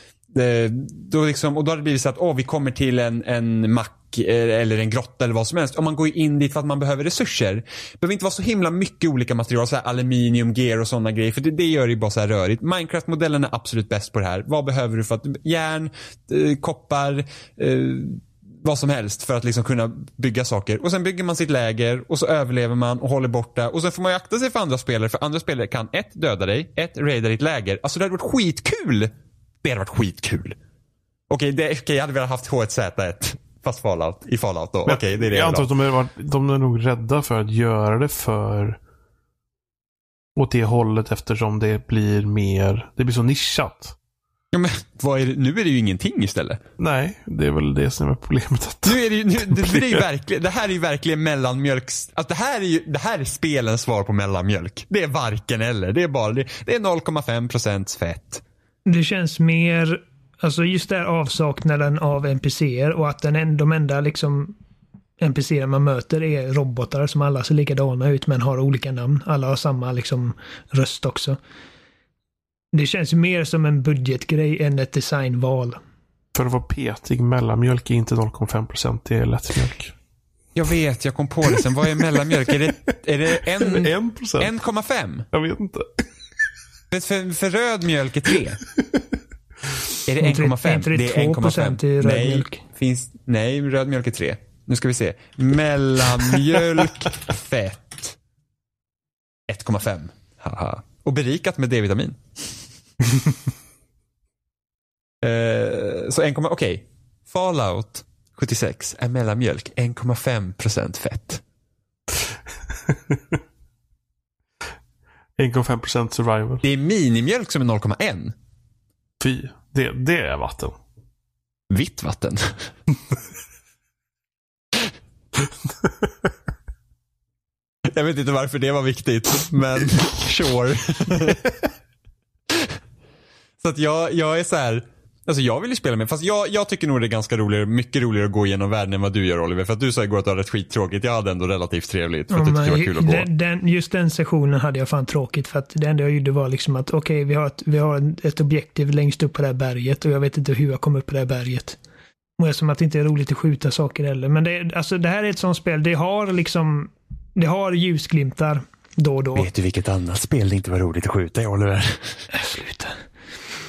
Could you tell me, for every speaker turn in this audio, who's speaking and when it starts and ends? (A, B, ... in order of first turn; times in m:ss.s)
0:00.3-0:29.1 A
0:29.6-0:30.6 A
0:31.3-0:35.7 A
0:34.9-0:38.8 B
0:40.4-0:44.0 B
0:44.5-0:46.6 A
0:46.8-0:50.0 B
0:48.8-0:58.4 A
0:58.9-1:04.6 C
1:05.2-1:11.4 C
1:12.7-1:15.8 C
1:16.4-1:19.9 B
1:20.6-1:25.3 A
1:23.5-1:24.5 B
1:25.3-1:26.0 B
1:26.9-1:28.6 A
1:30.1-1:38.2 A
1:30.2-1:32.6 C
1:39.5-1:42.6 A
1:45.2-1:51.4 A
1:52.9-1:53.2 B
1:55.4-1:56.6 B
1:56.6-1:58.4 A
1:59.2-2:00.8 B
2:01.7-2:02.7 A
2:07.8-2:11.4 A
2:12.5-2:12.8 A
2:13.6-2:23.3 A
2:22.3-2:31.8 C
2:32.4-2:39.5 C
2:39.4-2:42.3 A
2:42.3-2:43.0 C